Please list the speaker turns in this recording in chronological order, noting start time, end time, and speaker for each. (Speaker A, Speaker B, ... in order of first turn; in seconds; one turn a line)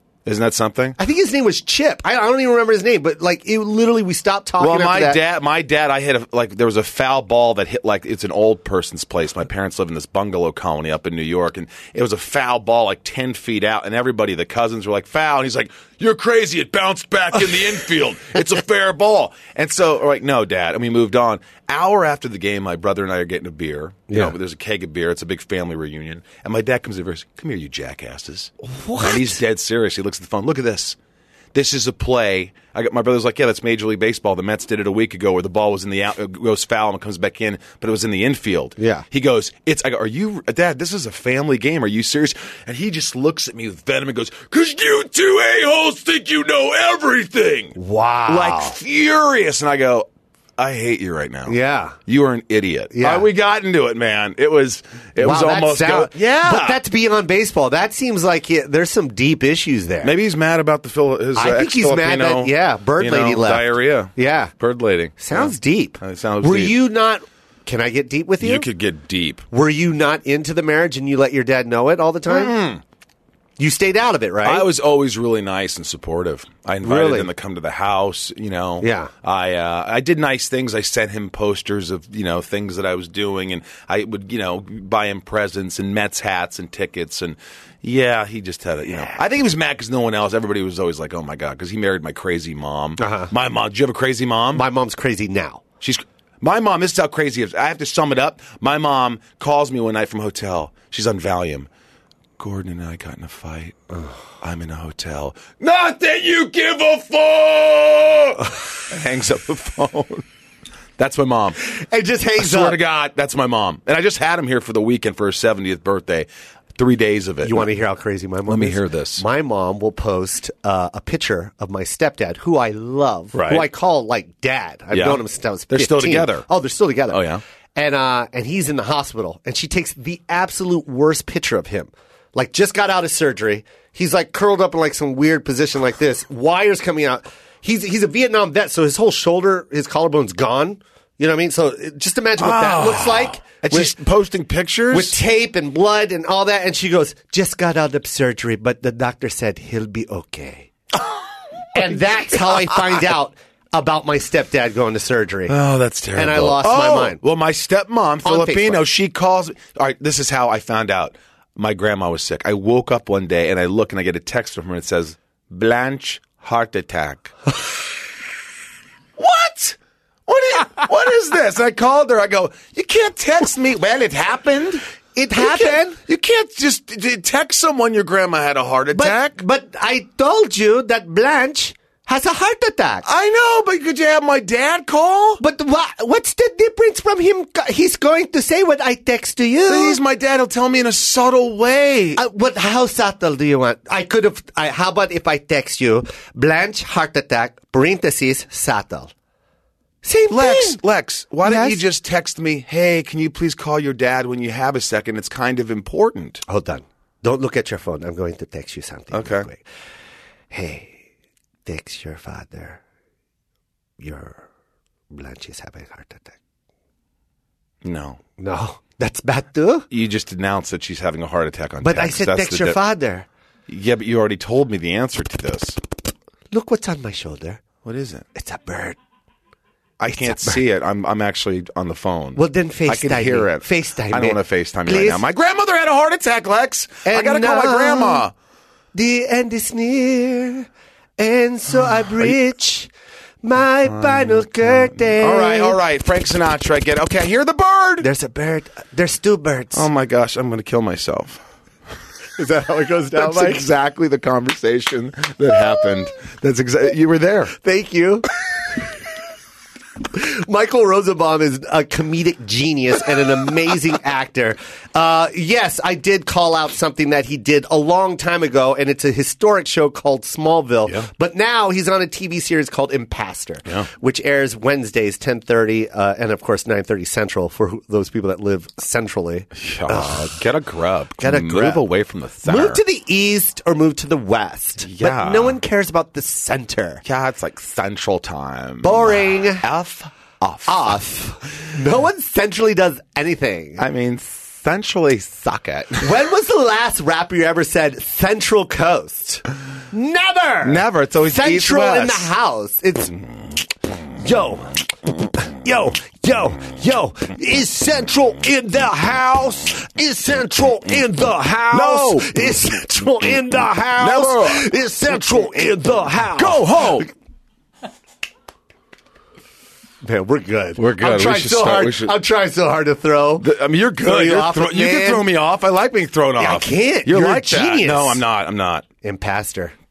Speaker A: 0.2-1.0
Speaker B: 1.0-5.2
Speaker A: 4.6-31.0
Speaker B: 24.1-24.3
Speaker B: 28.6-29.4
Speaker A: 31.5-47.8
Speaker B: 38.8-39.0
Speaker B: 47.7-48.8
Speaker A: 48.3-56.8
Speaker B: 51.5-52.0
Speaker B: 52.9-53.3
Speaker B: 55.2-60.1
Speaker A: 60.0-66.8
Speaker B: 61.3-64.5
Speaker B: 65.2-68.7
Speaker A: 68.4-69.5
Speaker B: 69.5-72.5
Speaker A: 72.3-72.8
Speaker B: 73.6-74.7
Speaker A: 74.4-94.7
Speaker B: 76.8-77.3
Speaker B: 78.8-79.1
Speaker B: 93.0-93.3
Speaker B: 94.5-95.6
Speaker A: 95.8-101.7
Speaker A: 102.4-103.8
Speaker A: 104.4-110.2
Speaker A: 111.0-111.6
Speaker B: 111.6-112.8
Speaker A: 112.4-117.7
Speaker B: 117.4-143.9
Speaker A: 118.5-119.2
Speaker A: 123.3-123.7
Speaker A: 124.9-126.5
Speaker A: 127.1-127.4
Speaker A: 142.4-145.2
Speaker B: 144.9-150.7
Speaker B: 151.7-155.5
Speaker A: 155.5-167.3
Speaker B: 156.1-157.2
Speaker B: 158.2-158.8
Speaker A: 169.2-174.8
Speaker B: 175.1-176.0
Speaker A: 175.3-179.4
Speaker B: 178.9-183.0
Speaker A: 183.0-185.4
Speaker B: 185.4-190.0
Speaker A: 189.7-192.2
Speaker B: 192.2-199.1
Speaker B: 200.0-200.8
Speaker A: 200.3-206.4
Speaker B: 201.4-201.8
Speaker B: 206.5-209.6
Speaker A: 209.1-209.5
Speaker B: 210.5-211.0
Speaker B: 211.6-212.8
Speaker B: 214.0-214.4
Speaker B: 215.1-216.3
Speaker A: 217.8-218.2
Speaker B: 218.4-219.9
Speaker A: 219.9-222.8
Speaker B: 221.8-223.3
Speaker A: 223.7-225.8
Speaker B: 226.5-227.6
Speaker A: 227.8-228.2
Speaker B: 228.3-229.0
Speaker A: 230.0-238.3
Speaker B: 230.1-230.6
Speaker B: 232.3-235.2
Speaker B: 237.0-238.2
Speaker B: 238.9-242.9
Speaker B: 243.4-245.8
Speaker A: 243.8-248.1
Speaker B: 248.0-249.9
Speaker A: 249.7-251.4
Speaker B: 252.4-253.7
Speaker A: 253.1-257.5
Speaker B: 257.6-258.3
Speaker B: 260.1-280.4
Speaker A: 279.5-282.8
Speaker B: 281.2-281.8
Speaker B: 282.4-287.0
Speaker A: 284.8-285.6
Speaker A: 287.0-291.0
Speaker B: 288.8-289.6
Speaker B: 290.6-293.8
Speaker A: 293.8-296.1
Speaker B: 296.0-303.2
Speaker A: 300.6-302.3
Speaker B: 304.2-304.7
Speaker B: 305.4-317.1
Speaker A: 311.7-312.6
Speaker A: 314.0-314.7
Speaker A: 316.4-317.1
Speaker B: 320.0-323.5
Speaker A: 320.8-322.1
Speaker A: 323.4-328.9
Speaker B: 324.0-325.2
Speaker B: 326.4-328.2
Speaker B: 329.0-329.7